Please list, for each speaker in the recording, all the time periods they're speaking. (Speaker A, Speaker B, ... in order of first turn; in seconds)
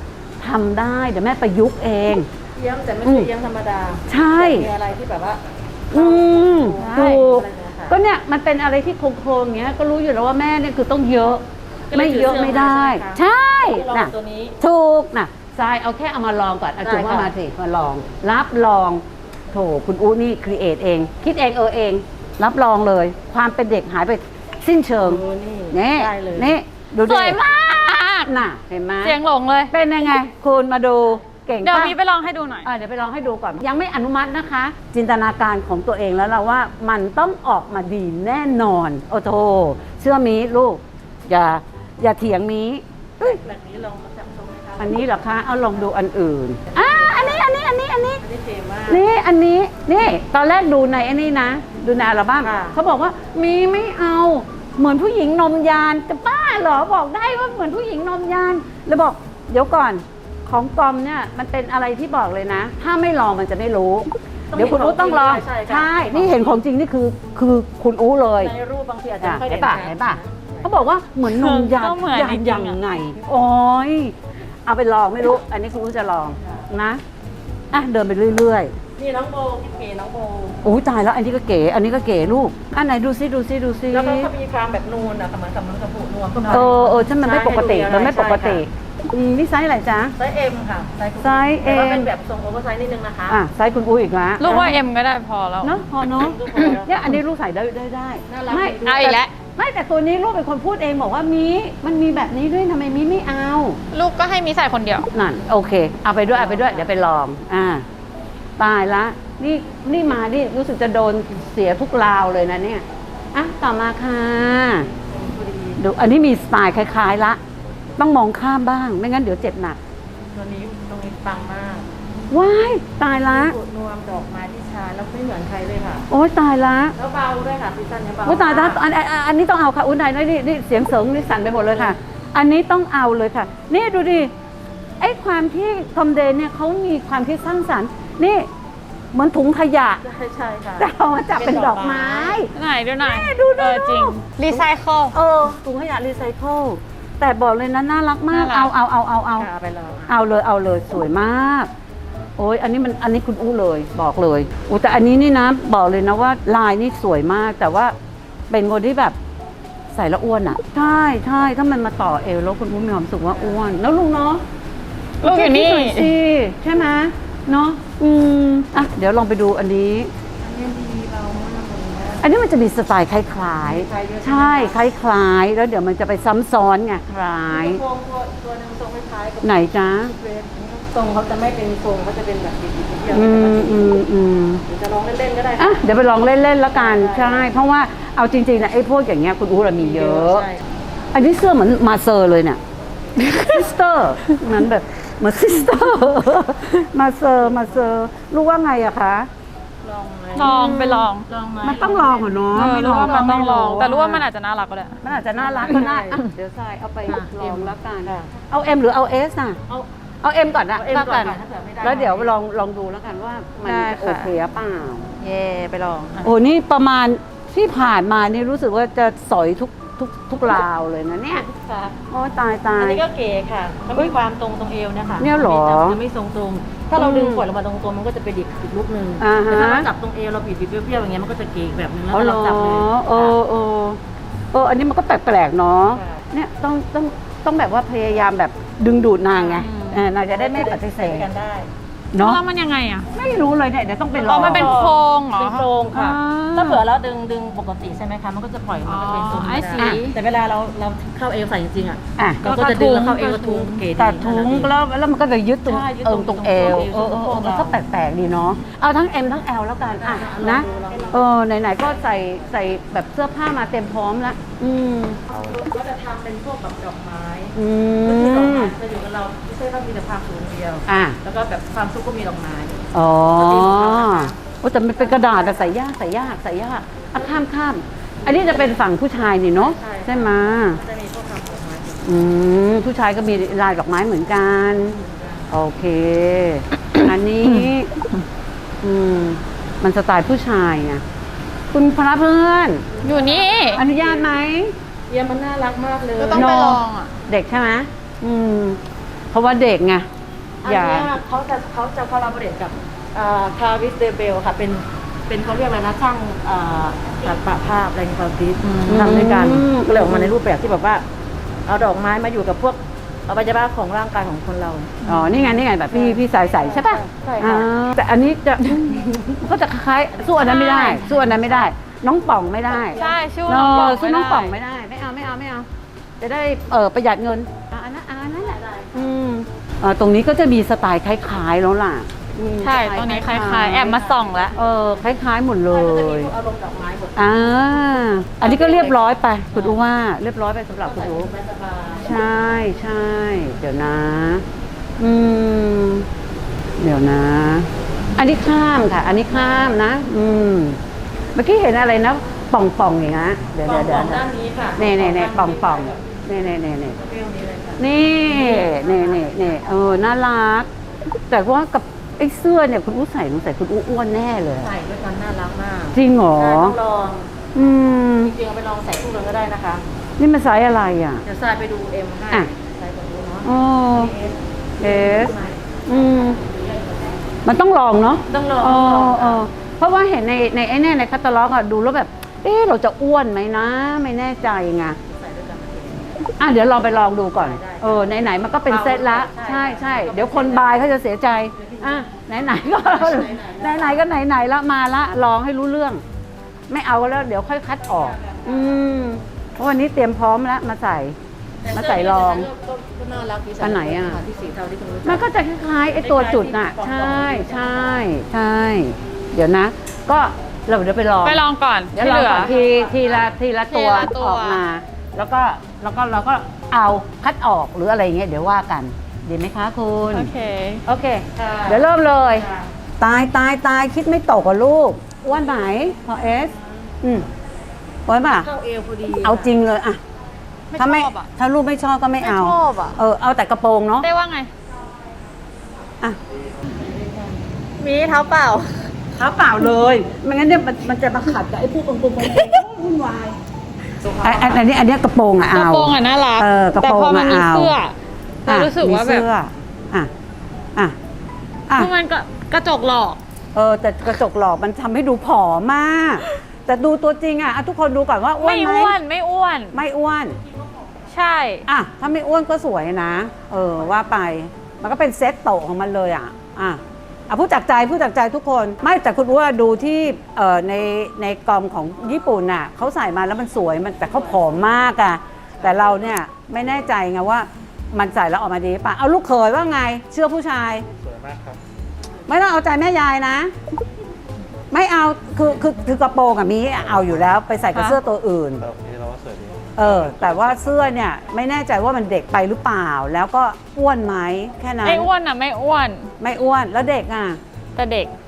Speaker A: 0.4-2.3, 4.1-4.7, 5.9-29.1, 29.7-31.9, 32.6-43.4, 44.8-48.2, 48.9-68.5, 69.2-74.1, 74.7-77.0, 77.7-78.7, 80.6-84.3, 86.5-90.1, 91.2-92.1, 93.3-94.8, 95.6-103.8, 105.1-107.8, 108.6-114.9, 115.8-117.4, 118.0-119.8, 122.3-123.5, 126.1-126.9, 128.2-134.3, 135.0-138.5, 139.1-140.0, 140.8-144.6, 145.1-149.5, 150.1-151.7, 152.4-157.9, 158.5-159.2, 159.9-164.4, 165.2-170.1, 172.2-177.8, 179.4-180.1, 183.1-184.6, 185.6-190.4, 191.1-192.6, 193.3-199.3, 200.4-201.1, 201.6-204.2, 205.0-209.6, 210.2-215.1, 216.2-221.4, 222.1-223.0, 225.2-226.0, 226.9-227.4, 229.2-229.9, 232.1-234.0, 234.5-241.3, 242.1-242.4, 243.1-244.8, 245.9-246.8, 252.2-252.4, 254.0-265.2, 267.5-268.7, 270.9-271.2, 272.9-280.8, 282.0-287.9, 288.8-291.0, 291.7-292.8, 293.7-294.7, 296.3-298.8, 299.3-300.1, 300.6-301.1, 308.9-310.3, 315.0-325.7, 326.2-334.0, 334.5-336.3, 337.1-341.3, 342.0-344.4, 345.0-346.1, 346.8-350.8, 351.3-354.2, 354.8-357.0, 357.8-360.7, 361.3-364.7, 365.9-366.8, 367.5-368.3, 370.2-371.2, 373.4-374.1, 374.8-375.3, 375.9-376.4, 377.4-385.0, 386.4-396.0, 396.7-401.1, 401.7-402.5, 403.6-404.2, 405.0-411.4, 411.9-420.3, 420.8-422.5, 423.0-427.2, 428.1-428.5, 429.2-430.0, 430.7-434.1, 439.2-443.4, 444.2-447.8, 448.5-450.1, 453.5-458.9, 459.7-460.4, 461.7-480.9, 482.3-483.5, 484.7-488.6, 489.8-495.1, 496.2-497.4
Speaker B: 2.5-8.0, 11.9-14.6, 16.8-17.3, 25.0-26.5, 43.2-45.4, 46.7-47.4, 48.2-49.0, 52.4-52.8, 64.5-66.6, 68.4-70.7, 79.0-80.6, 83.9-88.6, 90.2-93.4, 96.0-97.1, 98.3-99.2, 106.3-107.0, 115.1-115.8, 120.3-121.9, 123.2-126.0, 127.0-128.8, 140.0-142.4, 149.4-150.2, 170.4-172.2, 173.6-174.8, 177.5-184.0, 184.7-185.8, 186.7-187.5, 189.8-190.6, 199.8-200.6, 201.3-202.4, 205.1-206.2, 207.1-208.3, 210.7-212.3, 221.3-222.0, 222.8-233.4, 235.9-236.2, 240.3-241.7, 244.1-254.7, 255.6-257.8, 259.9-261.3, 265.3-274.4, 274.9-275.7, 278.2-278.8, 279.5-282.1, 284.9-285.5, 292.9-294.2, 295.1-296.6, 300.6-311.0, 311.6-315.0, 315.9-317.7, 320.1-321.7, 322.7-323.2, 328.3-329.1, 333.9-334.7, 335.6-337.9, 338.4-339.8, 340.8-342.1, 353.6-356.0, 356.9-359.9, 364.6-367.3, 368.2-369.9, 371.2-377.2, 378.3-379.4, 385.0-390.9, 391.6-391.9, 392.8-394.0, 401.6-405.2, 405.9-408.1, 412.3-413.3, 421.3-422.7, 428.3-429.5, 436.6-437.4, 444.0-444.6
Speaker C: 6.8-7.3, 27.0-28.3, 29.0-29.7, 31.6-32.7, 71.2-72.8, 94.4-95.7, 98.8-99.3, 103.9-105.1, 142.5-145.1, 148.3-148.7, 165.2-166.1, 193.2-193.6, 200.4-201.3, 202.5-205.0, 213.6-214.3, 215.2-216.3, 239.4-240.0, 242.2-243.1, 244.2-245.7, 248.8-250.2, 252.4-253.9, 293.0-293.8, 296.2-297.1, 308.6-309.3, 315.0-315.6, 320.4-321.2, 322.9-324.5, 332.6-334.5, 411.2-412.5, 413.7-414.6, 420.1-420.8, 430.7-431.3, 432.2-433.0, 434.0-434.5, 437.8-438.9, 442.2-442.6, 445.5-447.9, 448.4-449.3, 451.7-453.2, 458.4-459.7, 461.1-461.6, 487.7-488.0, 494.8-496.1, 497.8-498.1
Speaker D: 265.3-265.6, 481.0-481.6, 486.7-487.3, 488.6-490.9